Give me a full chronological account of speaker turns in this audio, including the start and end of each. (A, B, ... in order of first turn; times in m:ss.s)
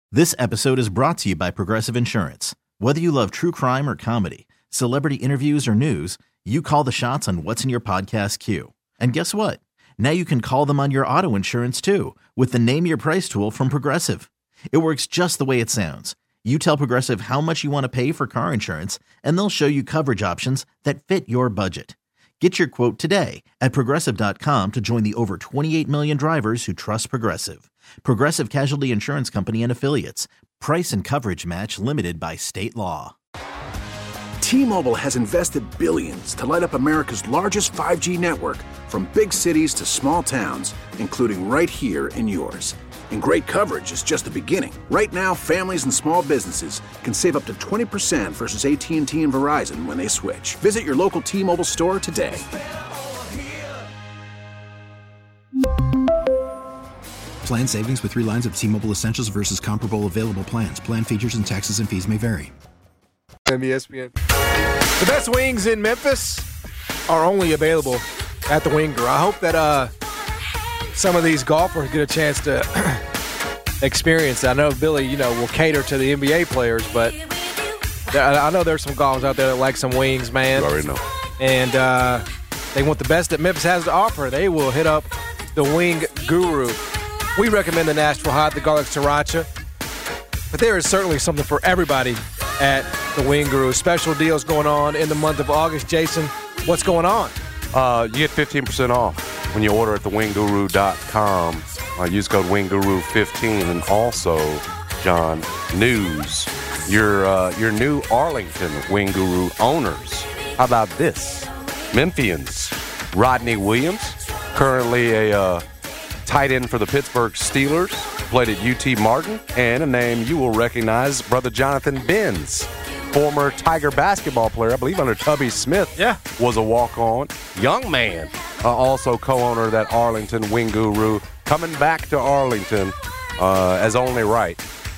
0:00.1-0:33.2 A
0:34.4-0:52.5 B
0:57.4-1:02.5 C
1:03.5-1:04.1 D
1:05.0-1:06.5 D
1:07.1-1:09.9 D
1:10.9-1:13.0 D
1:13.8-1:17.2 D
1:18.1-1:20.7 D
1:20.5-1:21.0 E
1:21.4-1:26.8 D
1:27.4-1:29.5 D
1:30.5-1:37.4 D
1:37.7-1:55.6 E
1:56.3-2:14.6 E